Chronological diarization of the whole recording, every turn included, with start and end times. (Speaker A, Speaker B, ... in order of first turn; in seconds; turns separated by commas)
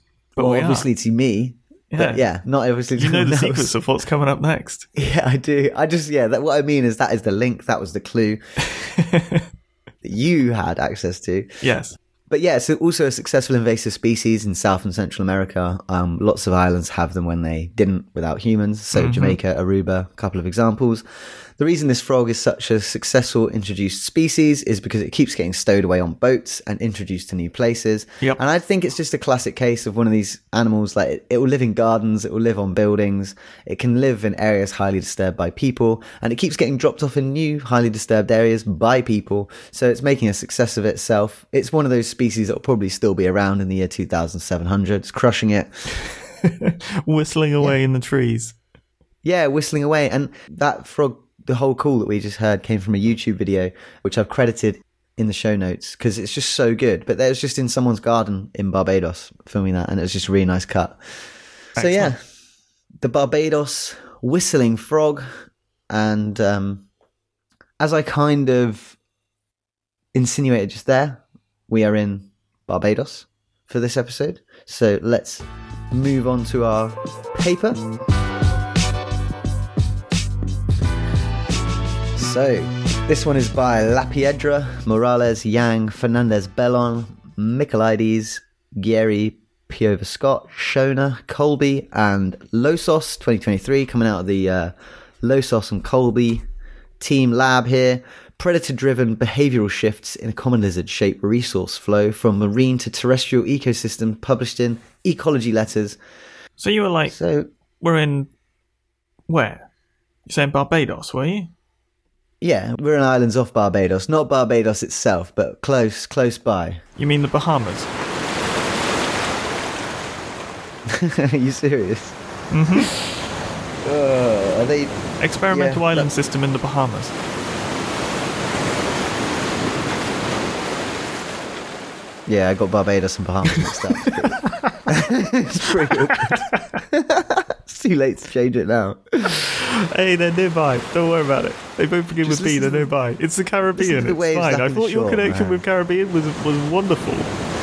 Speaker A: 0.4-0.9, Speaker B: 0.4-3.7, Speaker A: 1.9-2.2, Speaker A: 3.0-4.9, Speaker B: 5.0-8.4, Speaker A: 8.6-9.4, Speaker B: 10.0-11.5, Speaker A: 11.6-11.9, Speaker B: 12.3-21.0, Speaker A: 18.9-19.4, Speaker B: 21.6-45.7, Speaker A: 46.0-48.6, Speaker B: 49.2-61.0, Speaker A: 61.8-62.1, Speaker B: 61.8-62.2, Speaker B: 63.0-65.3, Speaker B: 65.9-66.9, Speaker B: 67.8-69.0, Speaker B: 70.1-77.8, Speaker B: 82.2-96.4, Speaker B: 97.0-106.0, Speaker A: 106.6-107.2, Speaker B: 107.1-107.5, Speaker A: 107.8-108.3, Speaker A: 109.3-109.7, Speaker A: 110.3-111.5, Speaker B: 112.4-116.8, Speaker A: 117.0-117.9, Speaker B: 120.9-122.2, Speaker A: 122.5-122.9, Speaker B: 123.8-124.9, Speaker A: 125.2-127.2, Speaker B: 125.5-126.1, Speaker B: 132.3-139.5, Speaker A: 133.6-134.9, Speaker A: 135.9-136.8, Speaker A: 139.6-147.3, Speaker B: 142.2-142.9, Speaker B: 143.8-145.6